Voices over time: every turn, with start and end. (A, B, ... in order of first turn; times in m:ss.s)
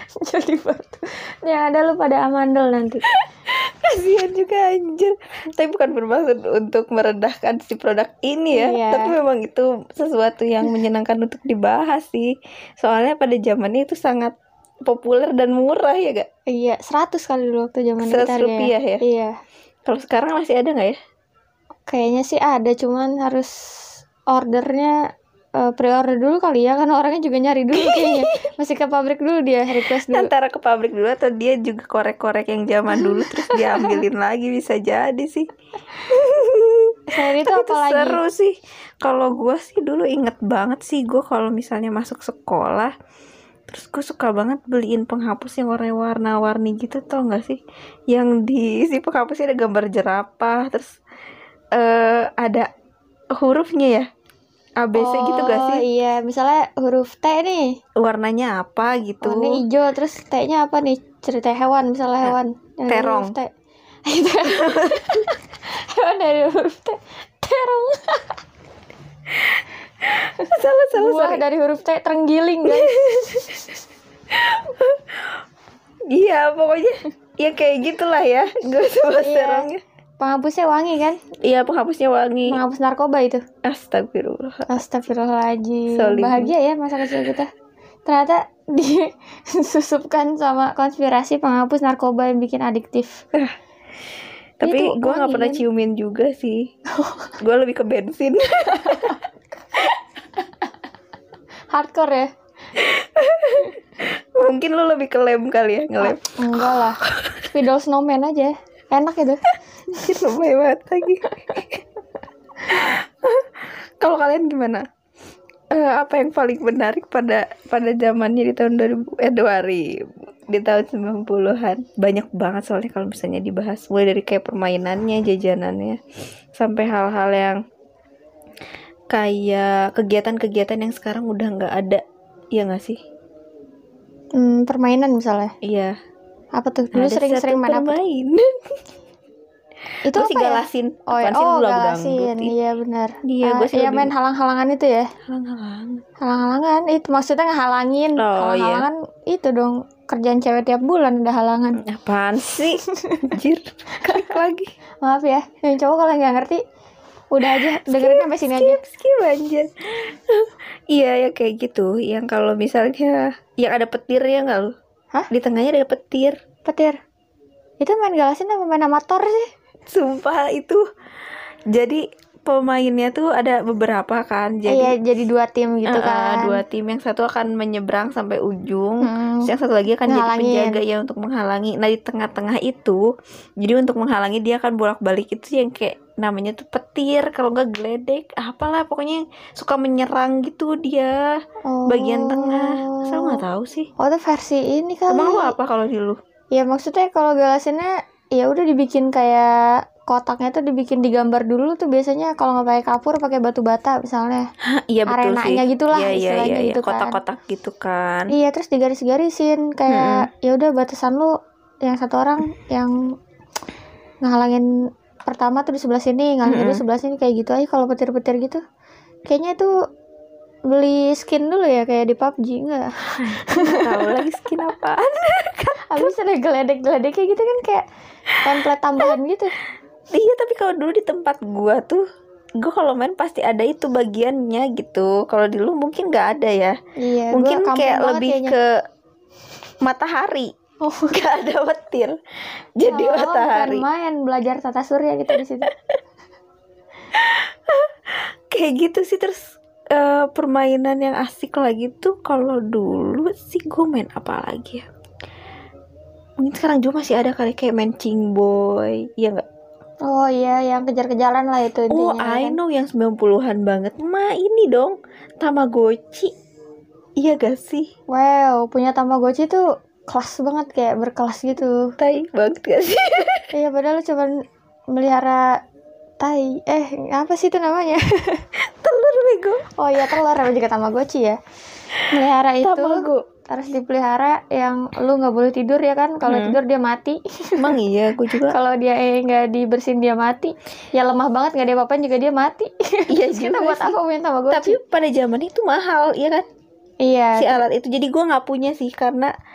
0:00.2-0:03.0 A
0:03.5-0:16.3 B
0:08.5-0:09.2 A
0:16.5-0:19.3 A
0:18.0-0:19.0 B
0:19.9-0:21.0 B
0:21.9-0:24.9 A
0:25.6-0:30.3 A
0:27.7-0:28.5 B
0:30.0-0:35.5 B
0:32.9-0:34.0 A
0:36.0-0:42.9 B
0:37.1-0:38.2 A
0:43.7-0:51.0 B
0:51.7-0:52.7 B
0:53.4-0:54.1 B
0:54.8-0:55.8 B
0:54.9-0:57.8 A
0:58.0-0:59.6 B
0:59.2-1:03.5 A
1:02.9-1:03.4 B
1:04.0-1:08.4 A
1:04.4-1:05.3 B
1:10.1-1:11.4 B
1:10.9-1:13.5 A
1:12.6-1:13.6 B
1:14.3-1:15.4 B
1:16.1-1:19.8 B
1:19.2-1:21.2 A
1:21.4-1:22.6 B
1:22.5-1:23.4 A
1:23.6-1:24.8 B
1:24.7-1:27.5 A
1:25.9-1:26.5 B
1:28.0-1:33.2 A
1:34.6-1:36.7 B
1:34.6-1:35.6 A
1:37.0-1:37.3 A
1:37.4-1:39.2 B
1:38.8-1:39.1 A
1:41.7-1:42.3 A
1:42.7-1:47.4 B
1:46.0-1:49.4 A
1:50.0-1:51.8 B
1:52.7-1:54.8 B
1:55.7-2:06.0 B
2:06.6-2:07.6 B
2:09.1-2:12.0 B
2:12.5-2:13.0 B
2:14.3-2:15.5 A
2:15.6-2:15.9 B
2:16.6-2:18.0 A
2:16.9-2:18.5 B
2:20.0-2:25.1 A
2:20.1-2:22.5 B
2:23.2-2:24.1 B
2:25.3-2:26.0 B
2:26.2-2:31.8 A
2:28.2-2:28.9 B
2:31.8-2:34.7 B
2:32.8-2:33.2 A
2:35.0-2:36.6 A
2:37.3-2:38.8 A
2:37.4-2:44.7 B
2:45.3-2:46.4 B
2:46.6-2:47.0 A
2:47.8-2:49.5 A
2:49.9-2:50.8 B
2:51.7-2:54.9 B
2:54.7-2:56.6 A
2:55.9-3:03.0 B
2:59.0-2:59.5 A
3:00.0-3:00.8 A
3:03.6-3:13.9 B
3:11.6-3:13.4 A
3:14.0-3:15.5 A
3:15.1-3:16.2 B
3:16.5-3:24.4 A
3:24.6-3:28.3 B
3:25.1-3:27.2 A
3:28.3-3:32.9 A
3:29.9-3:30.3 B
3:34.2-3:34.7 A
3:35.3-3:38.6 A
3:36.4-3:36.8 B
3:39.3-3:39.7 A
3:40.7-3:44.1 A
3:43.2-3:46.1 B
3:45.8-3:47.8 A
3:48.4-3:49.6 A
3:50.1-3:52.0 B
3:52.6-3:56.8 B
3:57.0-3:58.6 A
3:57.3-3:58.6 B
3:59.8-4:00.5 B
4:00.8-4:01.1 A
4:01.1-4:02.2 B
4:02.8-4:03.9 B
4:02.8-4:05.7 A
4:07.1-4:14.8 B
4:16.4-4:19.4 B
4:20.0-4:22.6 A
4:21.9-4:26.3 B
4:27.2-4:27.9 B
4:28.1-4:31.9 A
4:32.0-4:33.5 B
4:33.5-4:34.3 A
4:34.9-4:35.6 A
4:36.2-4:38.5 A
4:38.6-4:39.6 B
4:39.8-4:41.4 A
4:42.0-4:47.8 A
4:42.6-4:43.2 B
4:46.2-4:46.6 B
4:47.6-4:48.6 B
4:48.4-4:54.8 A
4:53.1-4:54.0 B
4:54.5-4:56.4 B
4:57.0-4:57.6 A
4:57.4-4:59.3 B